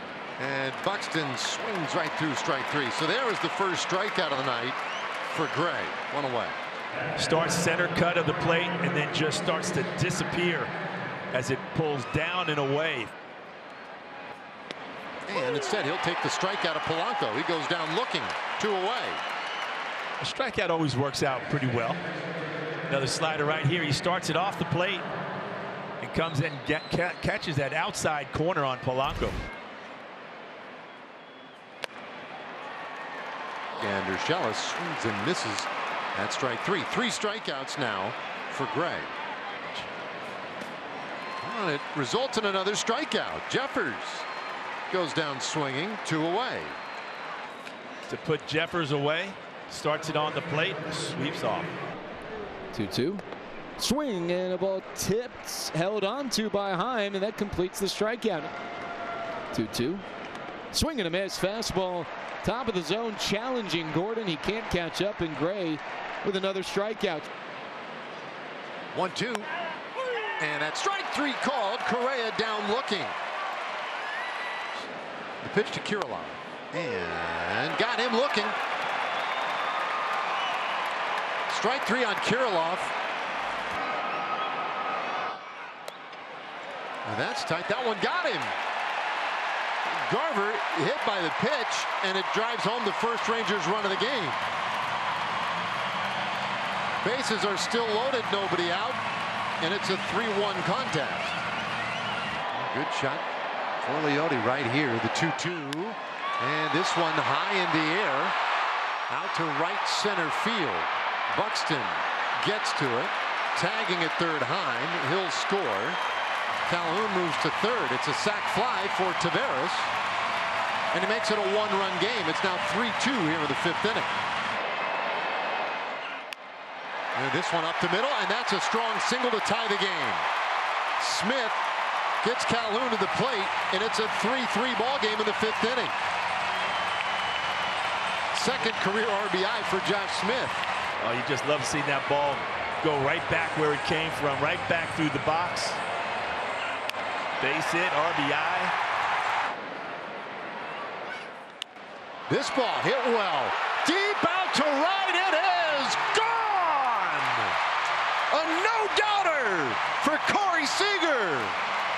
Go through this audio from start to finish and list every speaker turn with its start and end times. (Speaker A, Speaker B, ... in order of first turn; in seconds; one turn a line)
Speaker A: 0.4-6.5
Speaker B: 7.2-10.7
Speaker B: 11.3-13.1
Speaker A: 15.2-19.2
Speaker B: 20.2-22.0
Speaker B: 22.9-25.1
Speaker B: 26.0-29.4
Speaker A: 33.8-39.1
Speaker A: 41.4-44.3
Speaker A: 44.9-46.8
Speaker B: 48.1-51.7
Speaker C: 52.7-53.2
Speaker C: 53.8-58.5
Speaker C: 59.5-60.0
Speaker C: 60.7-67.3
Speaker A: 68.9-69.5
Speaker A: 70.4-73.1
Speaker A: 75.4-78.6
Speaker A: 81.5-82.9
Speaker A: 87.0-88.5
Speaker A: 89.8-94.4
Speaker A: 97.0-99.0
Speaker A: 99.6-101.4
Speaker A: 102.5-103.2
Speaker A: 103.8-108.3
Speaker A: 109.1-116.0
Speaker A: 116.7-119.9
Speaker A: 120.9-124.2
Speaker A: 127.1-130.2
Speaker A: 131.0-131.6
Speaker A: 132.2-135.9
Speaker A: 138.3-140.6
Speaker B: 141.0-145.8
Speaker B: 147.4-148.7
Speaker A: 152.3-157.6
Speaker A: 158.3-161.6